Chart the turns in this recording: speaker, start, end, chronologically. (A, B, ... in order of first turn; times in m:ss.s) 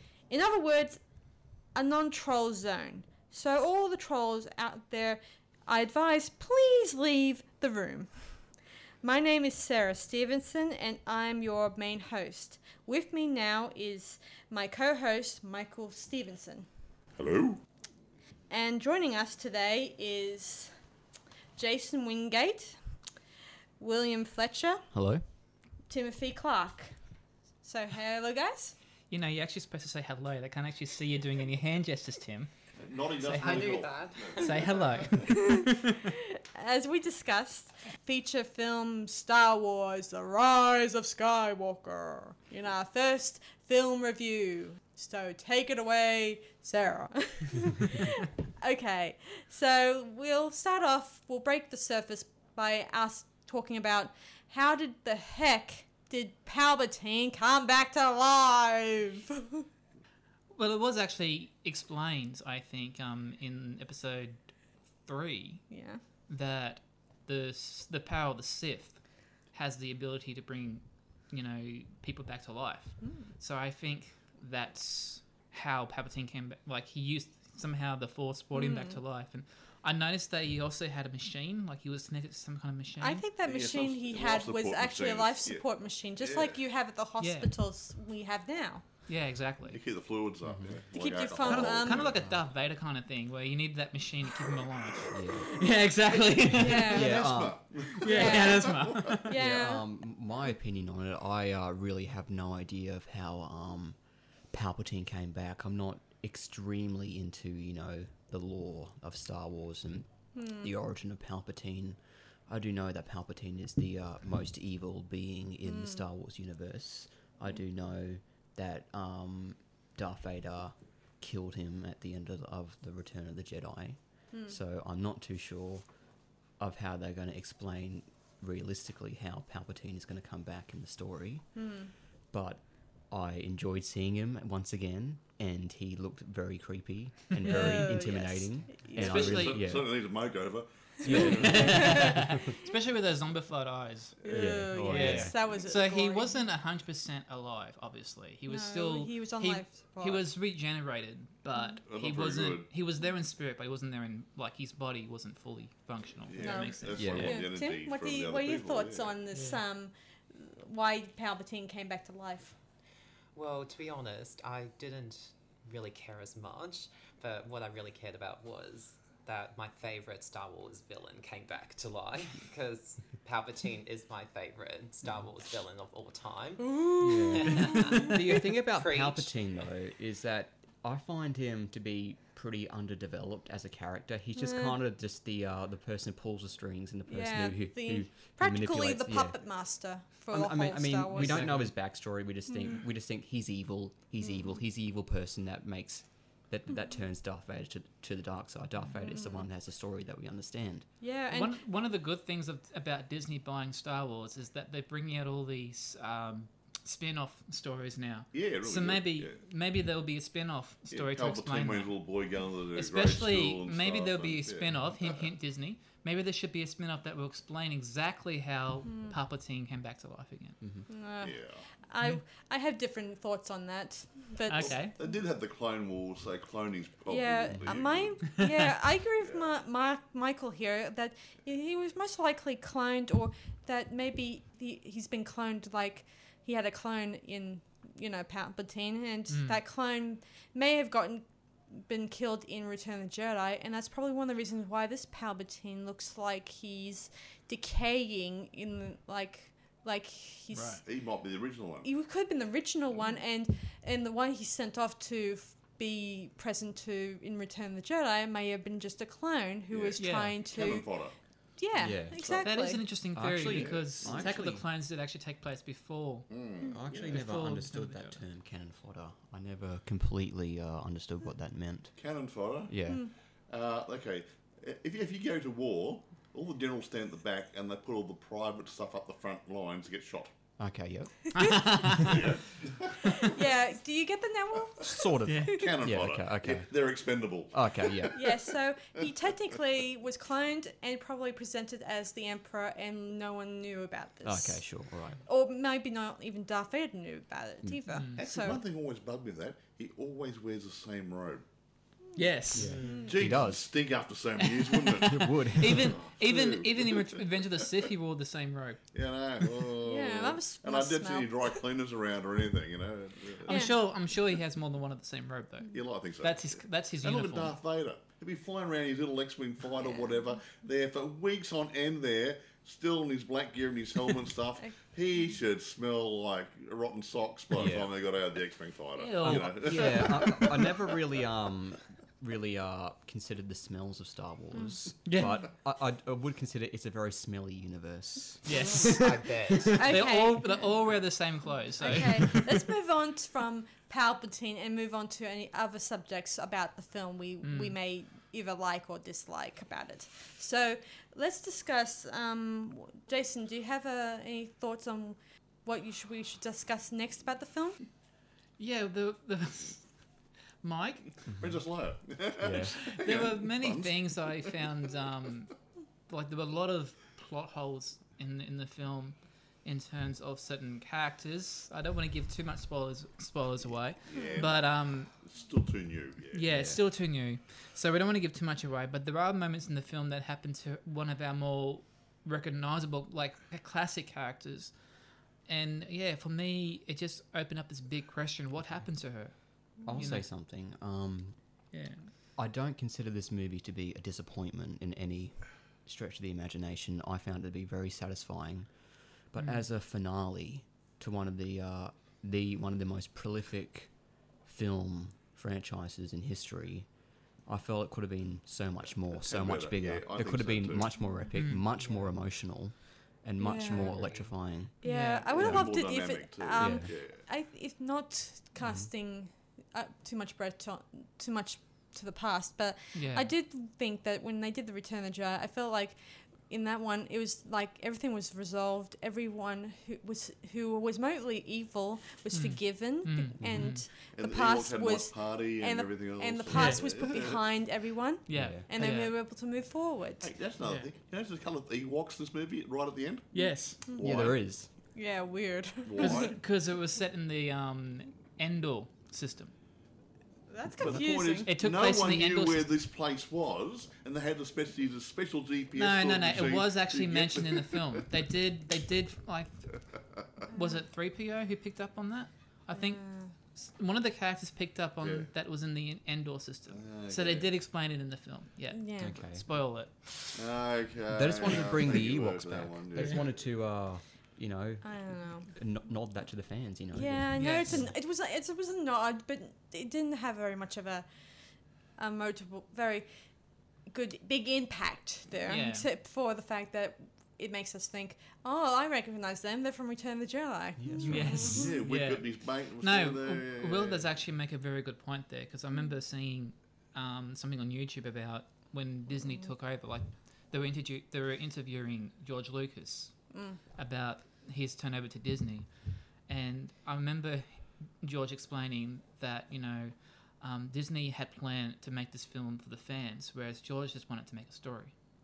0:00.3-0:01.0 A
0:01.7-0:08.4 A
0:09.0-0:16.7 A
0:17.2-0:17.6 B
0:18.5-0:20.7 A
0:21.6-0:22.8 A
0:23.8-0:24.8 A
0:24.9-0:25.2 C
0:25.9-0:26.9 A
0:27.6-0:28.8 A
0:29.1-0:32.5 D
0:32.8-0:35.3 B
0:33.2-0:36.0 D
0:33.3-0:34.8 E
0:35.2-0:59.7 A
1:00.6-1:04.4 D
1:05.0-1:05.7 D
1:05.7-1:06.0 A
1:06.3-1:23.2 D
1:13.0-1:13.3 A
1:18.5-1:19.0 A
1:23.0-1:28.8 A
1:23.4-1:25.6 B
1:26.2-1:26.6 B
1:27.2-1:27.5 D
1:29.1-1:29.8 D
1:29.7-1:32.2 B
1:30.4-1:30.8 C
1:30.9-1:32.0 A
1:31.4-1:37.2 D
1:32.0-1:32.4 C
1:34.5-1:35.2 B
1:35.1-1:35.6 C
1:36.5-1:37.3 A
1:36.6-1:37.6 C
1:36.9-1:39.2 B
1:38.0-1:39.3 D
1:38.0-1:39.8 A
1:39.3-1:44.0 C
1:44.5-2:05.8 C
1:50.3-1:50.7 A
1:55.6-1:56.0 A
2:04.3-2:04.6 A
2:06.6-2:11.5 C
2:11.6-2:11.9 A
2:12.3-2:20.0 C
2:17.4-2:19.4 A
2:18.9-2:19.7 D
2:19.0-2:22.0 B
2:21.0-2:22.6 C
2:21.0-2:37.3 D
2:21.1-2:22.3 A
2:24.2-2:26.4 A
2:24.3-2:25.4 C
2:28.5-2:30.2 A
2:31.9-2:32.7 B
2:36.3-2:39.1 B
2:36.4-2:42.6 A
2:37.0-2:37.4 C
2:39.3-2:39.6 D
2:43.3-2:59.3 E
2:56.6-2:58.1 A
2:57.0-3:09.4 C
3:04.3-3:04.8 A
3:07.1-3:11.5 A
3:10.3-3:20.9 C
3:11.1-3:11.7 D
3:12.5-3:12.8 A
3:14.2-3:14.5 A
3:18.9-3:19.5 A
3:21.0-3:21.6 A
3:21.3-3:31.9 D
3:28.3-3:29.4 B
3:30.9-3:35.3 B
3:32.7-3:40.6 D
3:38.9-3:39.1 A
3:40.6-3:40.8 C
3:40.9-3:44.9 A
3:41.2-3:41.6 B
3:44.5-3:44.9 D
3:44.6-3:48.2 B
3:47.1-4:10.9 A
3:48.4-3:48.7 D
3:59.3-3:59.6 D
4:10.5-4:10.8 D
4:10.8-4:11.9 B
4:11.8-4:21.0 A
4:19.7-4:21.2 B
4:20.0-4:20.4 D
4:21.6-4:22.8 A
4:21.7-4:22.4 C
4:22.2-4:22.5 B
4:22.4-4:26.3 D
4:23.1-4:24.6 C
4:23.4-4:24.3 B
4:26.3-4:27.2 B
4:26.6-4:32.0 C
4:27.0-4:28.2 D
4:32.0-4:32.8 B
4:32.7-4:33.0 C
4:32.9-4:33.1 A
4:33.5-4:40.3 B
4:40.6-4:42.3 C
4:41.3-4:42.2 D
4:41.4-4:42.2 A
4:42.0-4:43.1 B
4:43.0-4:45.7 A
4:44.8-4:46.7 C
4:45.2-4:45.5 D
4:45.5-4:48.2 B
4:47.5-4:48.3 C
4:48.1-4:54.7 A
4:54.2-4:55.2 C
4:55.2-4:58.6 A
4:57.9-4:58.2 D
4:58.2-5:01.4 B
5:02.1-5:02.8 D
5:02.5-5:03.7 C
5:02.6-5:03.1 E
5:02.8-5:03.1 A
5:03.1-5:07.2 B
5:04.4-5:08.8 D
5:05.0-5:06.0 C
5:08.9-5:13.6 B
5:09.8-5:11.5 A
5:13.4-5:17.5 D
5:13.5-5:13.8 A
5:15.7-5:30.7 B
5:27.5-5:27.9 C
5:28.9-5:30.6 D
5:29.2-5:39.7 C
5:35.0-5:35.4 D
5:38.4-5:42.4 D
5:38.9-5:39.9 E
5:39.7-5:40.6 A
5:41.8-5:57.8 A
5:47.4-5:47.7 D
5:58.6-5:59.9 D
6:00.6-6:01.2 D
6:01.2-6:01.6 C
6:01.4-6:04.7 B
6:02.4-6:02.8 C
6:02.7-6:05.6 D
6:06.1-6:15.1 D
6:14.0-6:16.5 B
6:14.1-6:14.5 A
6:16.3-6:24.8 D
6:16.5-6:16.8 C
6:25.4-6:30.2 D
6:29.9-6:31.4 C
6:31.7-6:32.1 D
6:32.4-6:38.8 C
6:39.3-6:43.9 C
6:39.4-6:39.6 D
6:44.4-6:46.9 C
6:47.4-6:54.7 C
6:49.1-6:50.9 B
6:51.3-6:51.6 D
6:51.8-6:52.0 E
6:53.4-6:54.0 A
6:53.7-6:54.4 E
6:54.8-7:20.3 A
6:54.8-6:55.3 D
6:55.3-6:57.2 B
6:55.4-6:55.7 C
6:56.6-6:56.9 C
6:58.6-6:58.9 C
7:02.9-7:03.3 D
7:12.3-7:13.8 D
7:13.4-7:13.7 C
7:14.1-7:17.4 B
7:16.5-7:16.8 D
7:18.3-7:19.1 D
7:18.3-7:18.6 C
7:20.2-7:24.4 B
7:20.6-7:20.9 D
7:23.3-7:23.8 D
7:23.3-7:24.0 A
7:24.0-7:24.7 C
7:24.9-7:26.4 A
7:25.8-7:26.4 B
7:26.0-7:29.5 D
7:30.5-7:31.5 A
7:30.8-7:38.0 B
7:31.4-7:32.7 D
7:35.7-7:39.5 D
7:40.4-7:50.3 D
7:40.5-7:40.8 A
7:42.7-7:43.3 A
7:45.0-7:45.3 B
7:46.7-7:47.5 B
7:48.7-7:49.2 A
7:49.0-7:49.4 C
7:50.3-7:53.4 B
7:51.1-7:58.0 C
7:54.8-7:55.5 A
7:56.9-8:01.1 A
7:57.4-7:57.9 D
8:02.0-8:03.1 A
8:03.8-8:11.7 A
8:05.5-8:05.9 D
8:10.8-8:11.6 C
8:11.0-8:34.9 D
8:11.5-8:14.1 B
8:23.3-8:23.6 A